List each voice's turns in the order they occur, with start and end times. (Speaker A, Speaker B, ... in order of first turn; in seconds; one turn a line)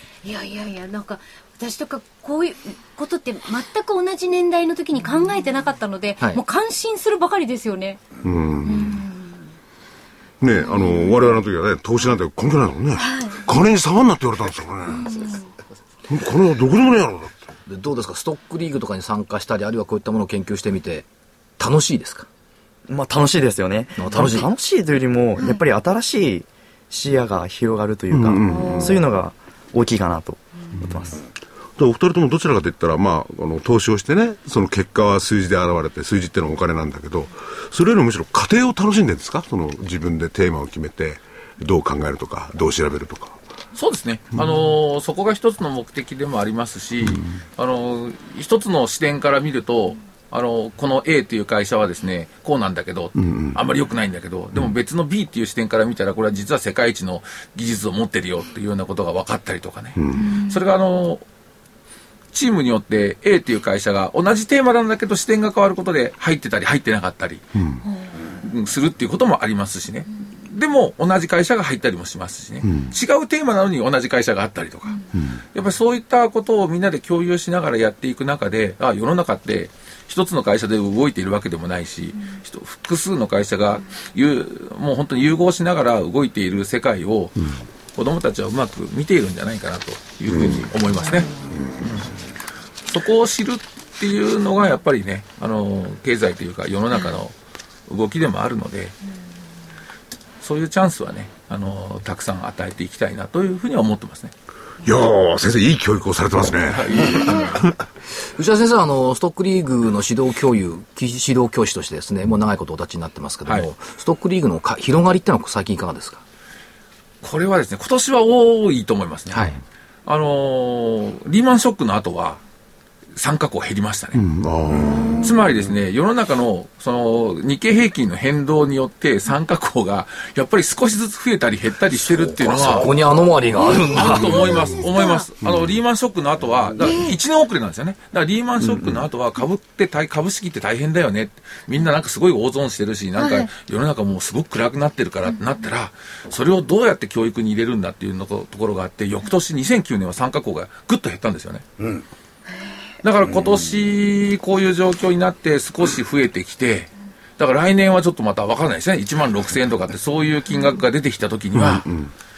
Speaker A: 0.2-8.0
Speaker B: 8.2-9.1
Speaker A: 8.7-9.2
Speaker B: 10.4-15.2
Speaker A: 10.8-11.2
Speaker A: 13.0-13.4
Speaker A: 14.9-15.4
Speaker B: 16.1-17.5
Speaker C: 17.7-21.1
Speaker C: 21.6-22.3
Speaker D: 22.9-31.2
Speaker C: 24.0-24.5
Speaker B: 28.1-29.0
Speaker A: 28.5-28.9
Speaker B: 31.8-43.4
Speaker E: 43.8-61.2
Speaker B: 53.2-53.6
Speaker B: 60.0-60.3
Speaker A: 60.1-60.5
Speaker E: 62.3-67.5
Speaker B: 67.6-67.8
Speaker E: 68.3-75.0
Speaker B: 72.6-73.0
Speaker E: 75.5-91.3
Speaker E: 91.8-92.1
Speaker E: 92.9-97.3
Speaker E: 97.9-99.0
Speaker E: 100.4-104.3
Speaker B: 104.8-107.8
Speaker E: 106.7-107.8
Speaker C: 108.4-116.2
Speaker E: 117.2-119.5
Speaker C: 119.3-119.6
Speaker E: 120.1-122.4
Speaker E: 123.2-124.2
Speaker B: 124.1-125.5
Speaker E: 125.2-133.0
Speaker C: 132.4-134.6
Speaker E: 133.8-151.7
Speaker A: 134.8-135.2
Speaker B: 135.4-135.7
Speaker A: 136.8-137.1
Speaker B: 138.7-139.0
Speaker A: 143.2-143.5
Speaker E: 153.0-161.9
Speaker B: 161.6-162.1